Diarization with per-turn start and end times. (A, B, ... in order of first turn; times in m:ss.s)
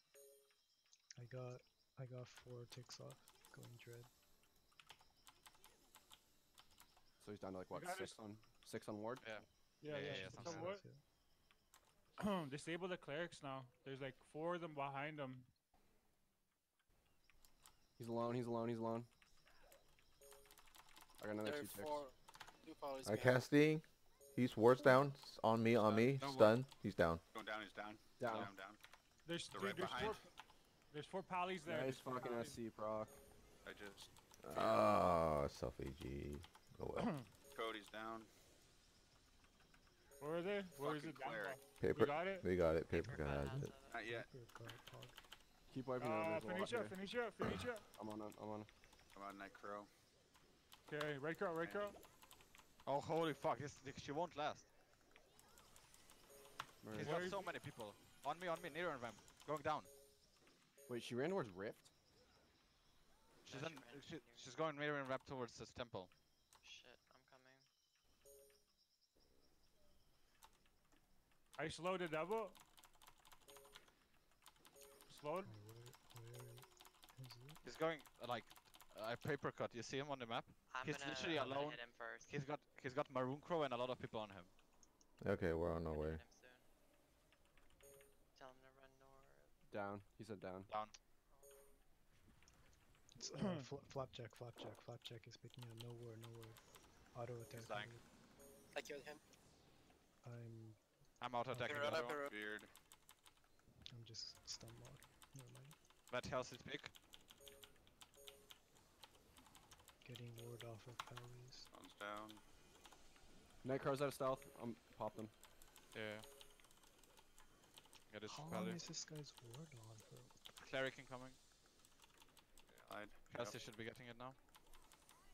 0:01.2-0:04.1 A
0:07.2-0:09.3 B
0:07.7-0:08.1 C
0:09.2-0:10.7 D
0:09.8-0:10.8 C
0:09.9-0:11.0 A
0:12.2-0:15.5 C
0:18.0-0:19.1 B
0:21.2-0:22.1 B
0:21.4-0:22.1 E
0:22.6-0:23.4 E
0:23.0-0:27.2 F
0:25.8-0:26.6 D
0:27.3-0:28.8 G
0:28.2-0:28.5 B
0:29.2-0:30.3 C
0:29.5-0:30.2 G
0:30.9-0:32.6 C
0:31.6-0:33.1 B
0:33.6-0:34.9 G
0:34.4-0:37.1 F
0:37.0-0:37.3 C
0:37.5-0:38.3 G
0:40.2-0:42.5 C
0:40.8-0:41.6 G
0:41.8-0:43.7 F
0:42.9-0:44.0 H
0:44.0-0:44.2 G
0:44.0-0:45.2 A
0:45.7-0:47.0 B
0:46.0-0:47.8 C
0:47.9-0:48.7 B
0:49.1-0:49.9 G
0:50.9-0:52.0 C
0:51.6-0:51.9 G
0:52.8-0:54.7 D
0:56.8-0:57.3 B
0:56.9-0:59.9 D
0:57.0-0:57.5 C
1:00.9-1:01.9 B
1:03.4-1:06.1 D
1:03.5-1:04.6 H
1:06.6-1:07.6 H
1:11.6-1:12.6 C
1:15.0-1:15.5 C
1:15.4-1:17.6 A
1:17.6-1:24.5 D
1:20.7-1:22.3 H
1:21.1-1:21.6 A
1:25.2-1:26.2 F
1:25.9-1:26.7 H
1:28.3-1:29.5 H
1:29.7-1:30.7 B
1:30.7-1:30.9 D
1:33.2-1:38.0 A
1:33.3-1:33.7 C
1:37.5-1:37.9 D
1:38.7-1:39.2 E
1:40.2-1:40.8 A
1:41.2-1:42.2 D
1:41.5-1:42.1 A
1:41.7-1:42.2 E
1:42.3-1:42.7 G
1:43.9-1:45.8 A
1:46.1-1:46.9 D
1:50.0-1:51.7 A
1:51.7-1:52.4 G
1:53.6-1:55.3 B
1:55.9-1:56.2 D
1:58.1-1:58.8 D
1:58.3-2:00.4 A
2:00.6-2:01.4 D
2:02.7-2:03.5 G
2:03.3-2:04.4 D